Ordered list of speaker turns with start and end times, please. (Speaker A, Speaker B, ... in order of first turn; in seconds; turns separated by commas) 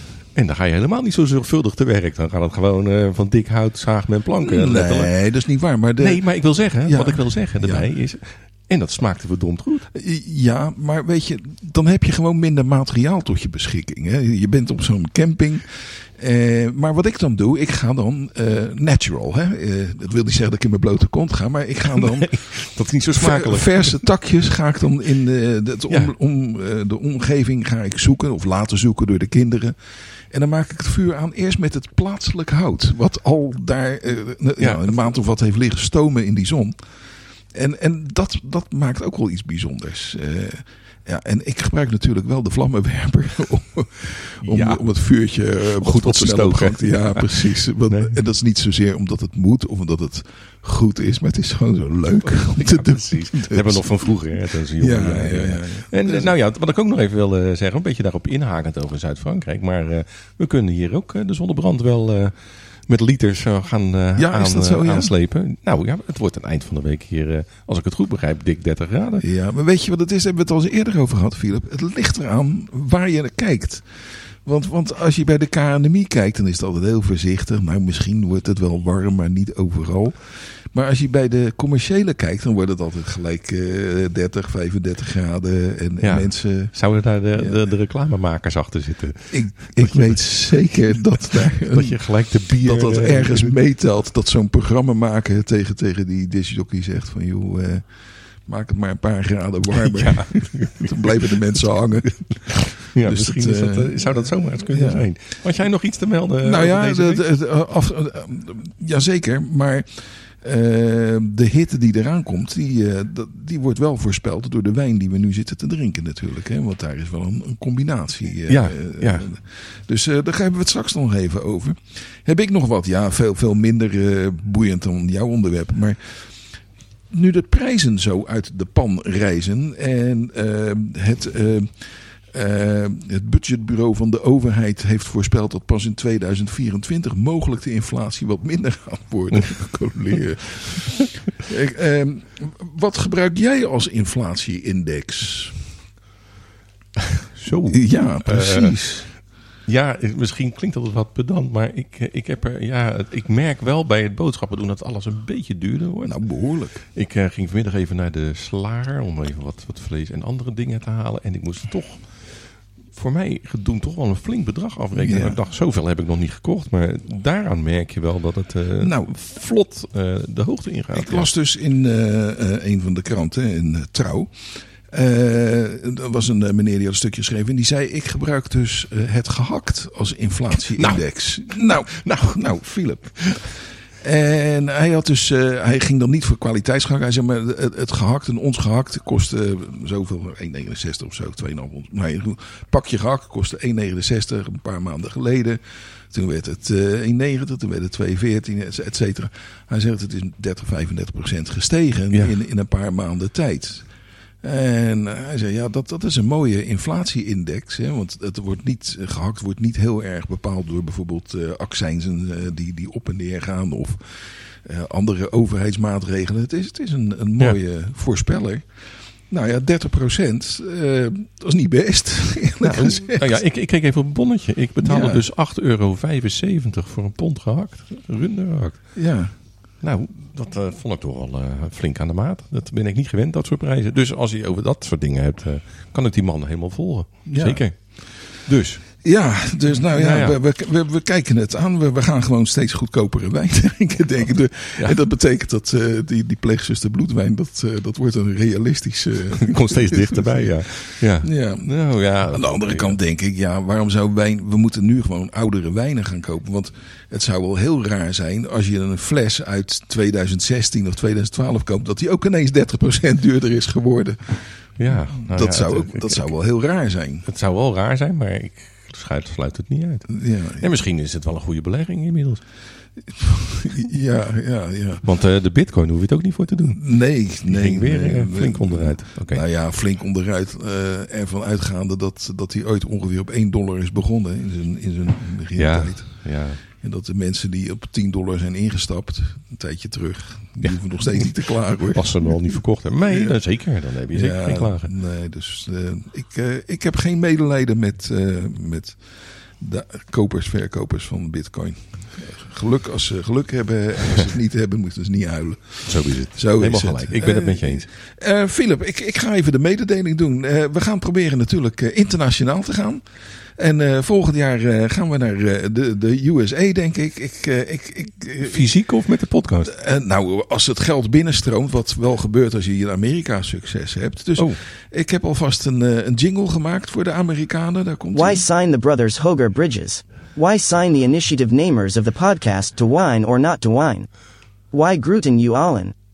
Speaker A: 0.3-5.2, Speaker B: 4.4-7.9, Speaker A: 6.0-9.9, Speaker B: 9.9-54.0, Speaker A: 21.9-24.1, Speaker A: 34.6-35.1, Speaker A: 44.4-44.9, Speaker A: 45.8-48.2, Speaker A: 52.2-69.2, Speaker B: 54.8-56.4, Speaker B: 64.2-65.1, Speaker B: 69.2-87.6, Speaker A: 86.0-93.6, Speaker B: 89.3-105.1, Speaker A: 99.7-101.4, Speaker A: 102.3-107.2, Speaker B: 106.4-126.5, Speaker A: 118.5-119.3, Speaker B: 127.1-145.7, Speaker A: 147.3-171.3, Speaker B: 147.7-149.1, Speaker B: 156.1-156.9, Speaker B: 164.9-165.4, Speaker B: 168.8-169.1, Speaker B: 170.9-223.4, Speaker A: 180.8-182.7, Speaker A: 222.6-239.1, Speaker B: 224.8-225.2, Speaker B: 228.9-229.3, Speaker B: 237.3-237.9, Speaker B: 239.0-267.3, Speaker A: 239.9-240.4, Speaker A: 249.4-253.0, Speaker A: 264.8-266.4, Speaker A: 267.2-272.5, Speaker B: 270.1-270.7, Speaker B: 273.2-275.1, Speaker A: 275.0-279.4, Speaker B: 276.8-318.8, Speaker A: 285.6-286.6, Speaker A: 290.6-294.9, Speaker A: 305.9-307.9, Speaker A: 318.4-319.8, Speaker B: 319.6-328.4, Speaker C: 328.1-334.1, Speaker C: 334.7-335.9